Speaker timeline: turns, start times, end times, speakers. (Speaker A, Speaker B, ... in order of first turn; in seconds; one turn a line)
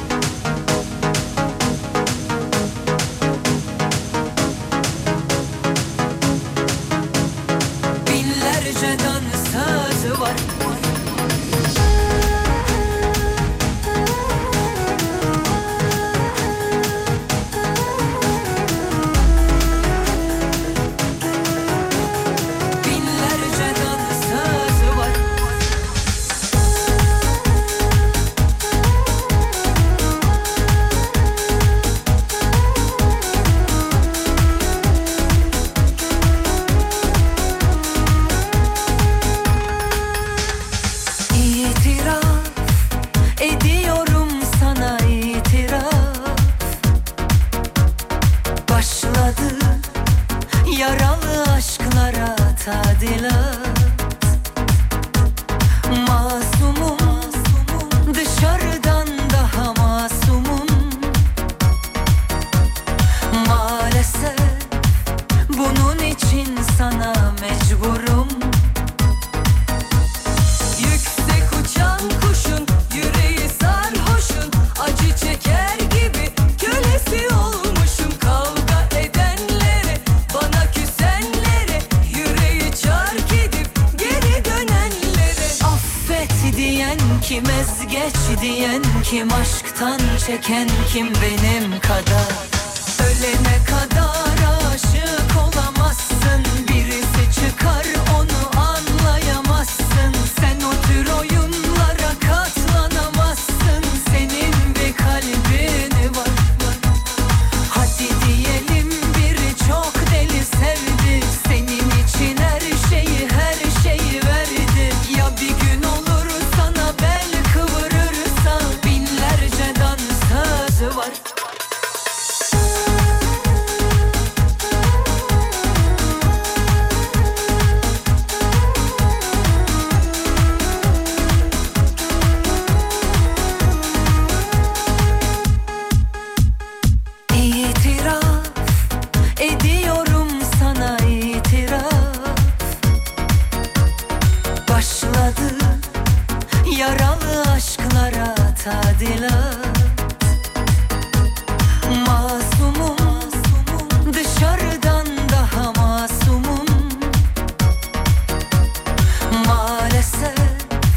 Speaker A: 8.0-10.8
Speaker A: 22.8-25.3
Speaker A: 41.3-42.6
Speaker A: 43.4-46.5
Speaker A: 48.7-49.9
Speaker A: 50.6-54.1
Speaker A: 55.9-61.3
Speaker A: 63.3-64.7
Speaker A: 65.5-68.8
Speaker A: 70.8-106.8
Speaker A: 107.7-121.2
Speaker A: 137.3-138.6
Speaker A: 139.4-142.5
Speaker A: 144.7-145.9
Speaker A: 146.6-150.0
Speaker A: 151.8-157.3
Speaker A: 159.3-160.7